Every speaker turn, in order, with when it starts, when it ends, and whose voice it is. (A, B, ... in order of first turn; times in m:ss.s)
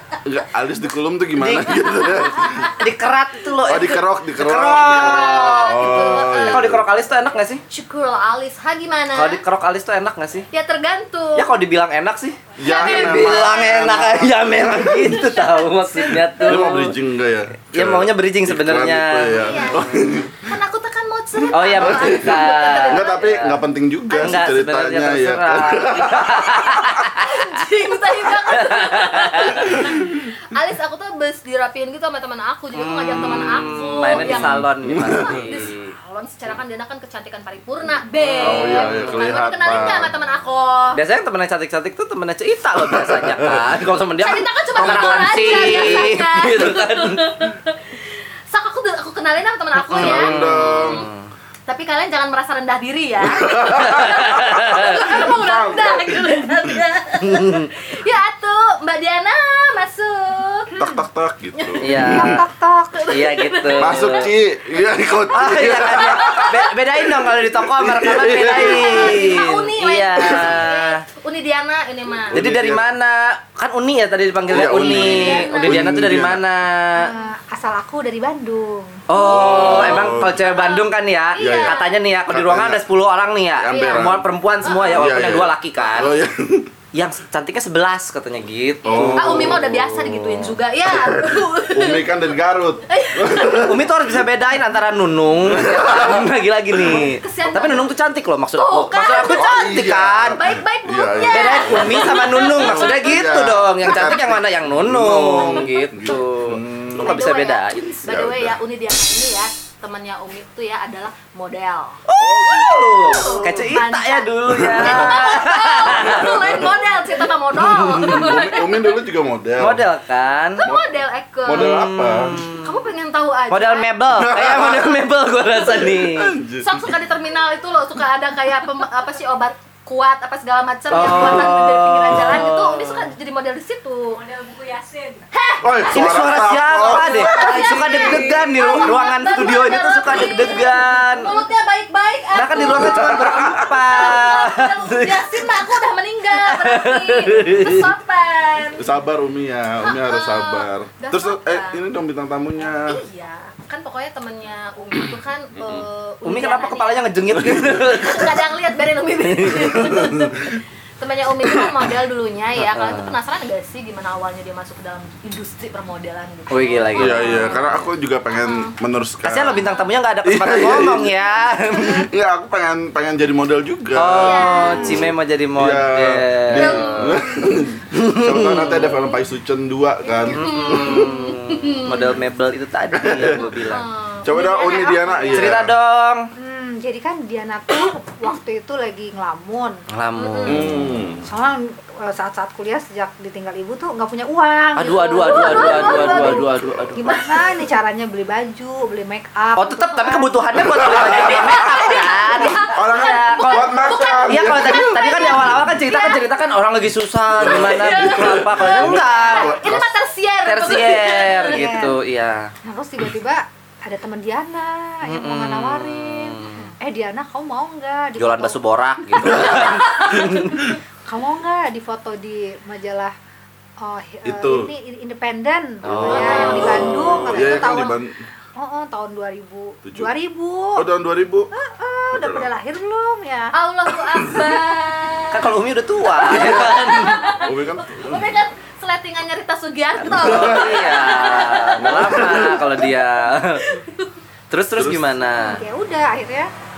0:00.2-0:02.7 A
0:01.4-0:01.8 B
0:02.7-0:07.6 B
0:03.6-0:06.9 A
0:04.8-0:06.8 C
0:07.7-0:09.4 C
0:09.2-0:10.5 B
0:10.5-0:11.5 C
0:11.4-0:17.0 B
0:12.6-0:15.2 A
0:12.6-0:13.7 C
0:15.0-0:16.8 C
0:16.4-0:20.5 A
0:17.7-0:19.8 B
0:19.3-0:23.4 C
0:21.5-0:23.6 B
0:21.8-0:27.0 A
0:24.1-0:27.7 B
0:27.2-0:41.0 C
0:28.3-0:29.8 B
0:29.6-0:30.2 A
0:32.7-0:35.9 B
0:34.1-0:35.7 A
0:38.2-0:39.9 B
0:38.4-0:40.1 A
0:40.9-0:47.2 B
0:42.8-0:43.8 A
0:44.2-0:51.1 C
0:44.7-0:46.1 A
0:49.8-0:51.3 B
0:50.0-0:51.1 A
0:51.7-1:00.8 C
0:53.4-0:56.3 A
0:53.6-0:55.2 B
0:57.2-0:57.7 B
1:00.8-1:02.4 A
1:01.6-1:01.9 C
1:01.8-1:02.4 B
1:02.0-1:03.1 D
1:03.0-1:04.3 C
1:03.1-1:04.3 B
1:03.8-1:09.4 A
1:05.3-1:11.0 B
1:06.0-1:06.7 C
1:08.4-1:12.3 C
1:10.2-1:10.6 A
1:12.3-1:12.9 A
1:12.3-1:17.1 B
1:14.5-1:16.4 A
1:14.8-1:15.8 C
1:17.0-1:19.0 D
1:19.1-1:26.2 B
1:19.1-1:21.9 C
1:19.3-1:20.4 A
1:21.4-1:22.9 A
1:23.6-1:24.3 A
1:23.7-1:24.1 C
1:24.6-1:25.1 C
1:24.8-1:26.7 A
1:26.9-1:30.6 B
1:28.8-1:29.7 A
1:28.8-1:32.2 C
1:30.9-1:34.3 A
1:32.9-1:33.6 C
1:33.6-1:40.4 B
1:35.4-1:36.3 A
1:36.8-1:37.9 C
1:38.6-1:39.7 C
1:39.3-1:47.2 A
1:40.4-1:43.6 C
1:41.3-1:48.1 B
1:45.4-1:46.2 C
1:47.0-1:52.0 C
1:48.0-1:48.6 A
1:52.1-1:56.4 B
1:52.2-1:53.8 A
1:53.0-1:59.0 C
1:54.5-1:55.3 A
1:55.9-1:56.7 A
1:57.7-1:59.8 A
1:59.6-2:00.6 B
2:00.6-2:01.7 C
2:00.6-2:02.4 A
2:01.5-2:02.7 B
2:02.6-2:03.9 C
2:03.5-2:06.3 B
2:04.2-2:05.0 A
2:05.6-2:07.0 A
2:06.6-2:14.5 C
2:10.9-2:13.1 B
2:14.4-2:15.2 D
2:15.3-2:15.7 C
2:15.6-2:19.0 A
2:15.9-2:21.4 B
2:16.8-2:28.9 C
2:20.1-2:20.4 A
2:22.4-2:25.4 B
2:22.5-2:23.5 A
2:26.4-2:27.9 B
2:28.8-2:33.0 A
2:29.8-2:31.8 C
2:32.6-2:47.7 C
2:35.6-2:35.9 A
2:36.2-2:38.4 B
2:39.2-2:40.2 B
2:39.9-2:40.5 A
2:42.6-2:43.1 B
2:46.5-2:47.8 B
2:47.0-2:49.6 A
2:48.3-2:48.7 C
2:49.2-2:52.1 B
2:49.4-2:49.9 C
2:50.2-2:51.1 A
2:51.7-3:01.2 A
2:54.0-2:57.2 B
2:54.1-2:55.1 C
2:56.6-2:57.4 C
2:57.9-2:59.0 B
3:00.1-3:02.2 C
3:00.2-3:03.9 B
3:02.9-3:03.6 A
3:03.6-3:05.6 C
3:04.2-3:05.7 A
3:05.3-3:06.3 B
3:06.4-3:09.8 D
3:09.9-3:10.9 B
3:10.2-3:10.8 C
3:10.4-3:11.3 A
3:11.2-3:22.0 D
3:14.8-3:17.1 B
3:14.9-3:16.5 C
3:15.7-3:17.0 A
3:19.6-3:29.6 B
3:20.6-3:25.8 A
3:21.9-3:26.4 C
3:27.4-3:29.9 A
3:27.4-3:31.7 C
3:30.5-3:32.5 B
3:31.4-3:32.0 D
3:32.6-3:38.6 D
3:35.0-3:36.6 B
3:38.2-3:40.7 B
3:39.2-3:40.4 A
3:41.1-3:43.1 D
3:43.8-3:48.0 D
3:44.2-3:44.7 A
3:45.8-3:47.5 B
3:45.8-3:48.2 A
3:46.1-3:47.7 C
3:48.6-3:50.9 D
3:49.9-3:50.1 A
3:50.8-3:51.5 A
3:51.5-3:53.5 D
3:52.1-3:52.5 A
3:53.5-4:02.8 C
3:54.0-3:54.5 A
3:55.3-3:57.3 B
3:56.1-3:58.4 A
4:00.0-4:00.9 A
4:00.1-4:03.6 B
4:01.8-4:02.8 A
4:03.6-4:04.1 C
4:04.5-4:05.6 B
4:04.8-4:05.3 A
4:05.4-4:06.5 D